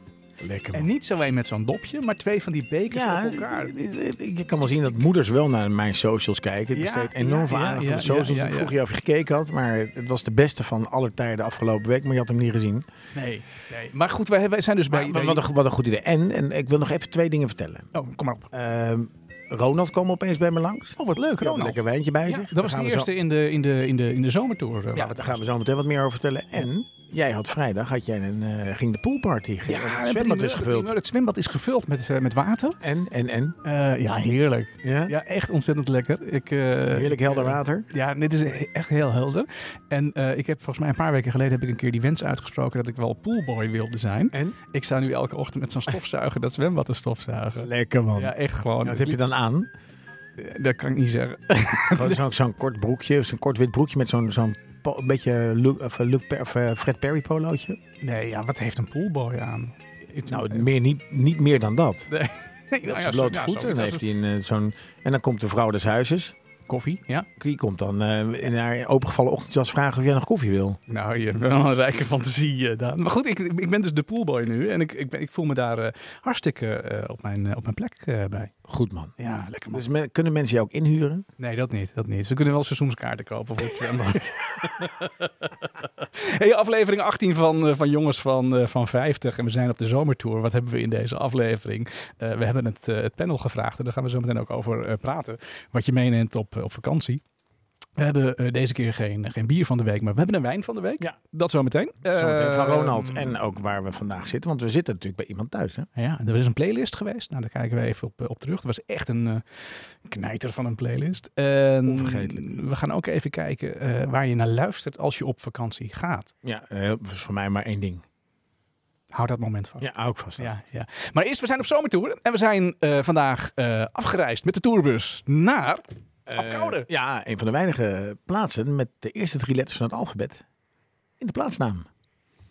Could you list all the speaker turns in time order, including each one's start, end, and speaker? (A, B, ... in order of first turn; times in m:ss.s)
0:00.4-0:00.9 A
0:00.7-0:03.7 B
0:02.9-0:12.9 A
0:06.7-0:08.7 B
0:13.1-0:15.4 B
0:14.9-0:17.9 A
0:17.9-0:18.5 B
0:18.5-0:23.1 A
0:21.0-0:25.4 B
0:24.9-0:31.0 A
0:29.7-0:32.8 B
0:32.8-0:33.6 A
0:33.6-0:49.2 B
0:34.8-0:35.1 A
0:36.9-0:37.9 A
0:47.5-0:49.7 A
0:50.4-0:52.2 B
0:51.9-0:57.8 A
0:58.0-1:00.7 B
1:00.3-1:02.1 A
1:02.1-1:04.0 B
1:02.8-1:06.3 A
1:06.7-1:07.3 B
1:07.4-1:10.8 A
1:10.9-1:18.5 B
1:18.6-1:19.1 A
1:19.2-1:19.8 B
1:19.7-1:21.3 A
1:21.4-1:37.2 B
1:38.0-1:43.4 B
1:42.0-1:45.9 A
1:46.0-1:56.3 B
1:51.8-1:52.4 A
1:56.4-1:58.0 A
1:59.1-1:59.9 B
1:59.8-2:00.5 A
2:00.4-2:06.8 B
2:06.3-2:10.4 A
2:11.2-2:11.9 A